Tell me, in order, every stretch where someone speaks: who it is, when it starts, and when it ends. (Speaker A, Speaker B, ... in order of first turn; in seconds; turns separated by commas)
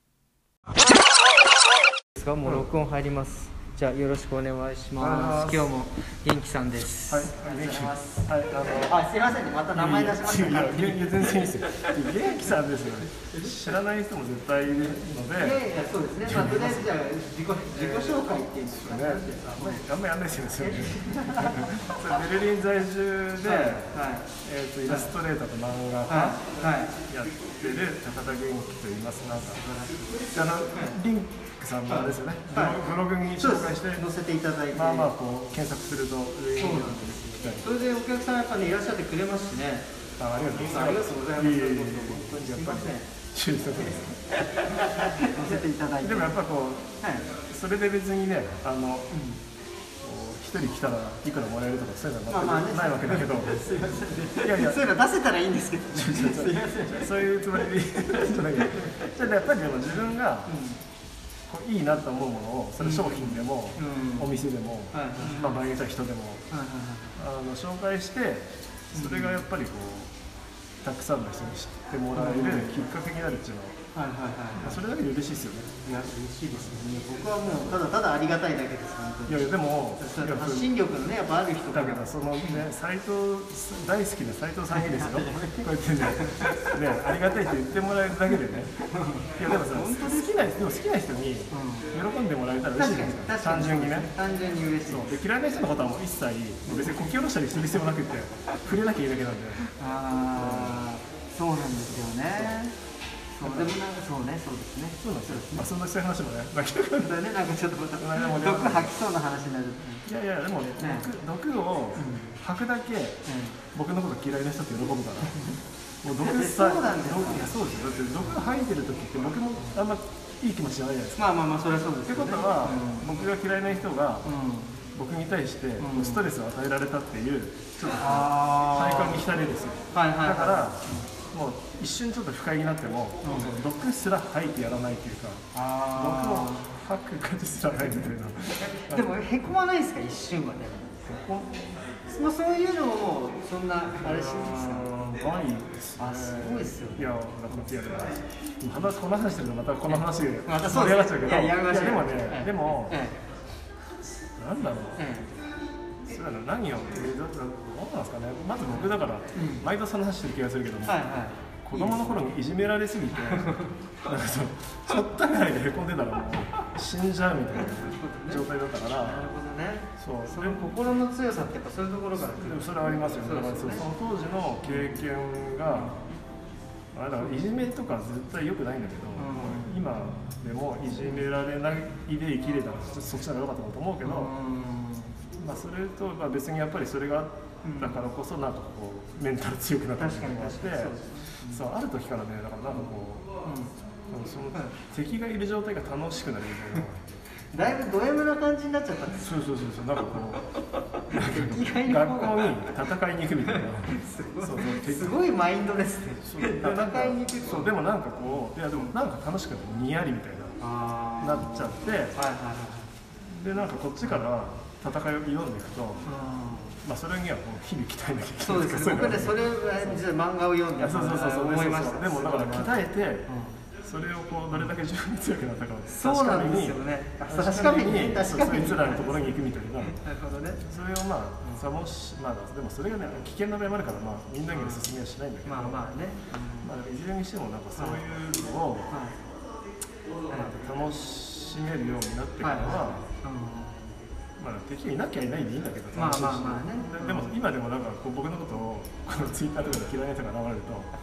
Speaker A: 2.2-12.3, Speaker B: 2.4-2.7, Speaker B: 5.0-5.8, Speaker B: 7.1-9.0, Speaker B: 9.7-15.7, Speaker A: 13.3-13.6, Speaker A: 15.3-19.9, Speaker B: 16.2-17.0, Speaker B: 17.7-26.6, Speaker A: 20.5-22.2, Speaker A: 23.4-24.3, Speaker A: 24.9-25.1, Speaker A: 26.1-26.9, Speaker B: 27.1-29.6, Speaker A: 29.2-31.0, Speaker B: 30.3-34.1, Speaker A: 31.9-35.1, Speaker B: 34.7-37.8, Speaker A: 36.5-39.9, Speaker B: 40.2-44.2, Speaker A: 40.6-43.1, Speaker A: 43.8-46.4, Speaker B: 45.0-49.1, Speaker A: 47.0-47.3, Speaker A: 49.1-49.4, Speaker B: 50.0-53.8, Speaker A: 52.3-57.4, Speaker B: 54.4-54.9, Speaker B: 55.9-60.6, Speaker A: 58.8-59.1, Speaker A: 60.5-60.8, Speaker B: 61.5-66.5, Speaker A: 62.8-64.3, Speaker A: 64.9-65.6, Speaker A: 66.5-67.2, Speaker B: 67.2-70.2, Speaker A: 68.9-69.4, Speaker B: 70.8-73.8, Speaker A: 72.1-72.8, Speaker A: 74.0-74.8, Speaker B: 74.5-75.7, Speaker A: 75.8-82.7, Speaker B: 77.4-77.8, Speaker B: 79.3-80.7, Speaker B: 81.7-88.8, Speaker A: 84.7-86.8, Speaker A: 88.9-90.5, Speaker B: 89.4-94.1, Speaker A: 91.5-92.0, Speaker A: 92.7-95.2, Speaker B: 94.9-99.7, Speaker A: 96.7-97.2, Speaker A: 99.6-102.8, Speaker B: 100.3-100.9, Speaker B: 101.7-102.6, Speaker A: 103.4-105.7, Speaker B: 103.4-103.8, Speaker B: 105.0-107.2, Speaker A: 107.0-110.1, Speaker B: 108.0-109.0, Speaker B: 110.1-113.2, Speaker A: 110.8-111.1, Speaker A: 112.0-112.4, Speaker A: 113.3-113.6, Speaker B: 113.7-121.2, Speaker A: 115.3-115.6, Speaker A: 116.2-117.5, Speaker A: 121.2-123.2, Speaker B: 122.1-124.3, Speaker A: 124.2-124.8, Speaker B: 124.9-139.1, Speaker A: 125.8-126.3, Speaker A: 127.9-129.2, Speaker A: 129.9-131.1, Speaker A: 133.2-133.6, Speaker A: 135.5-136.7, Speaker A: 138.6-141.1, Speaker B: 141.1-141.7, Speaker A: 142.1-145.2, Speaker B: 144.0-153.0, Speaker A: 146.0-147.7, Speaker A: 149.9-153.2, Speaker B: 154.4-155.2, Speaker A: 155.0-155.3, Speaker B: 156.1-161.0, Speaker A: 158.7-159.7, Speaker A: 160.8-162.3, Speaker B: 161.6-169.3, Speaker A: 163.1-163.8, Speaker A: 167.5-168.4, Speaker A: 169.0-173.9, Speaker B: 170.0-171.0, Speaker B: 172.2-176.0, Speaker A: 174.6-175.1, Speaker A: 175.7-176.0, Speaker B: 176.9-184.3, Speaker A: 179.2-179.8, Speaker A: 181.0-181.3, Speaker A: 184.0-185.2, Speaker B: 185.4-193.3, Speaker A: 187.6-188.0, Speaker A: 190.0-191.7, Speaker A: 192.7-193.7, Speaker B: 194.1-197.1, Speaker A: 194.5-194.8, Speaker A: 197.5-199.4, Speaker B: 199.2-200.4, Speaker A: 201.0-202.8, Speaker B: 201.1-205.2, Speaker A: 203.4-207.8, Speaker B: 206.2-210.6, Speaker A: 208.7-209.0, Speaker A: 210.6-212.9, Speaker B: 211.2-212.2, Speaker B: 213.3-216.1, Speaker A: 216.0-216.8, Speaker B: 216.8-220.0, Speaker A: 218.4-223.6, Speaker B: 220.8-223.3, Speaker B: 223.8-230.0, Speaker A: 225.9-230.6, Speaker B: 230.7-235.9, Speaker A: 231.4-231.7, Speaker A: 234.5-236.7, Speaker B: 236.6-239.0, Speaker A: 237.8-238.0, Speaker A: 238.9-239.2, Speaker B: 240.3-243.1, Speaker A: 242.4-243.9, Speaker B: 244.4-250.9, Speaker A: 245.9-247.4